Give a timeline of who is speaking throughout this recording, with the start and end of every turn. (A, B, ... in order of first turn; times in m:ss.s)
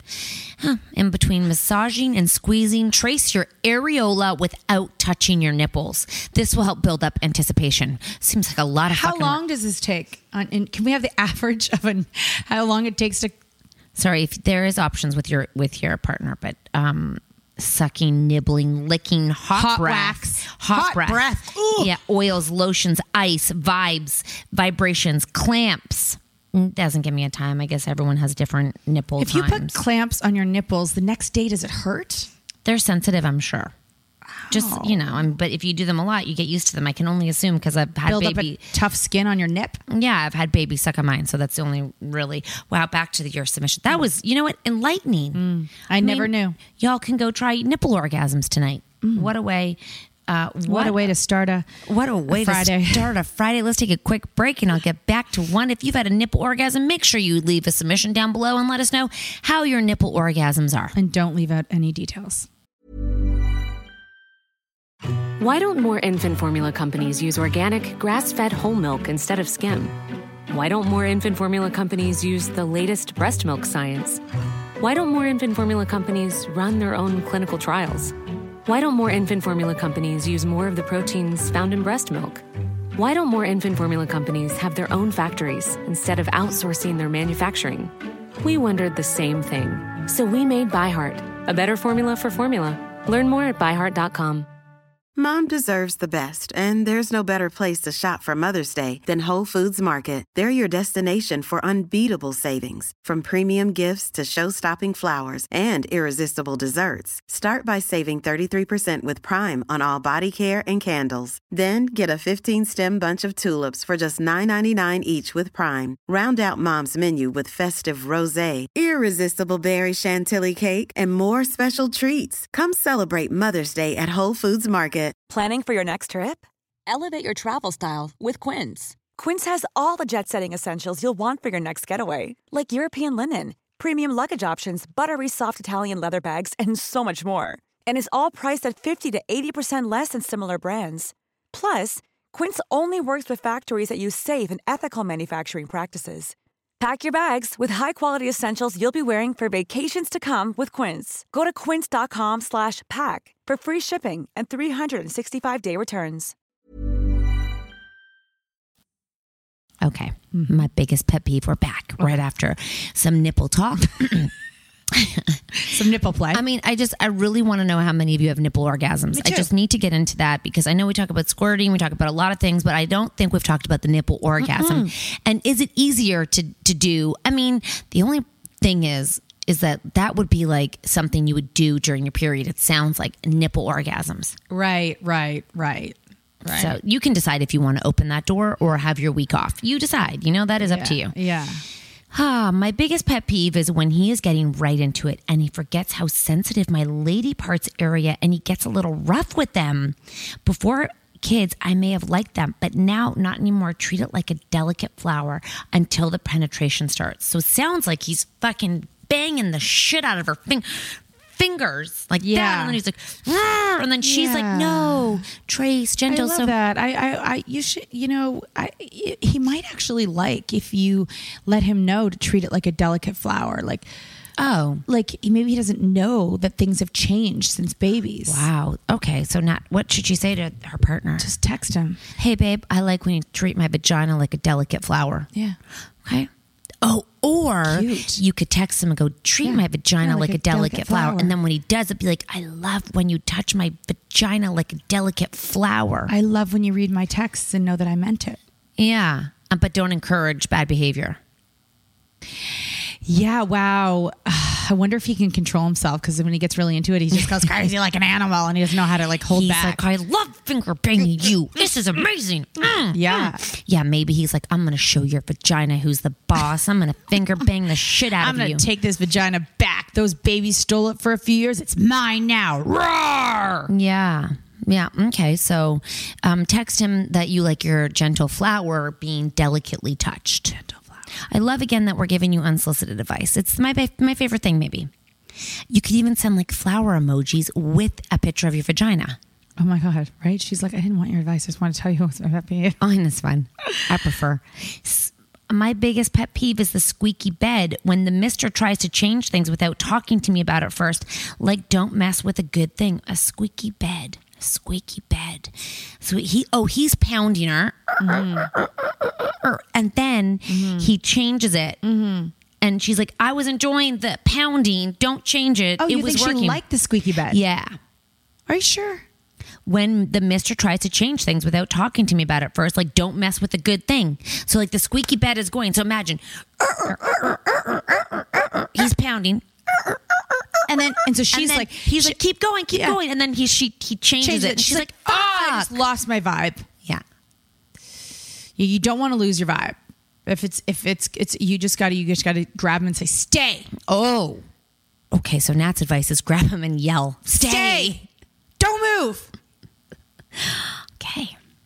0:00.6-0:09.4 A
0:08.9-0:13.3 B
0:14.0-0:21.2 A
0:19.5-0:21.9 B
0:21.8-0:29.8 A
0:29.2-0:32.3 B
0:32.6-0:33.7 A
0:34.3-0:35.3 B
0:34.5-0:38.6 A
0:38.1-0:39.8 B
0:39.9-0:45.4 A
0:45.4-0:46.6 B
0:46.0-0:51.1 A
0:49.0-0:49.3 B
0:50.7-0:51.7 B
0:51.8-1:01.0 A
0:52.3-0:53.1 B
1:01.0-1:02.5 B
1:05.4-1:10.0 C
1:10.5-1:14.2 C
1:14.8-1:18.1 C
1:18.6-1:22.4 C
1:23.0-1:34.5 C
1:35.2-2:05.2 D
2:05.3-2:36.3 E
2:39.8-2:44.3 A
2:44.9-2:45.4 A
2:45.6-2:46.4 B
2:46.3-3:04.4 A
2:49.1-2:49.5 B
2:54.4-2:54.9 B
3:04.5-3:06.8 B
3:06.5-3:11.1 A
3:10.6-3:11.6 B
3:12.1-3:36.5 A
3:32.2-3:32.8 B
3:34.0-3:35.2 B
3:36.1-3:43.9 B
3:44.4-3:44.8 A
3:44.9-3:48.5 B
3:48.3-3:51.3 A
3:51.2-3:52.0 B
3:52.2-3:55.3 A
3:56.8-4:06.1 A
3:57.7-3:58.2 B
3:59.4-4:01.4 B
4:06.1-4:08.4 B
4:08.8-4:11.2 A
4:13.0-4:19.8 B
4:19.3-4:28.6 A
4:22.9-4:23.4 B
4:28.2-4:33.7 B
4:33.7-4:40.5 A
4:40.5-4:41.0 B
4:41.3-4:44.9 A
4:45.7-4:49.2 A
4:49.6-4:52.8 B
4:52.8-5:11.8 A
5:08.0-5:08.5 B
5:10.5-5:10.9 B
5:11.8-5:12.3 B
5:12.6-5:16.6 A
5:15.8-5:17.4 B
5:17.3-5:17.8 A
5:18.5-5:19.0 B
5:19.7-5:30.6 A
5:30.7-5:32.2 B
5:31.3-5:35.8 A
5:32.7-5:33.0 B
5:34.2-5:36.7 B
5:38.6-5:43.7 B
5:43.9-5:44.4 A
5:45.1-5:48.0 A
5:47.3-5:48.0 B
5:48.6-5:49.3 B
5:50.4-5:51.4 A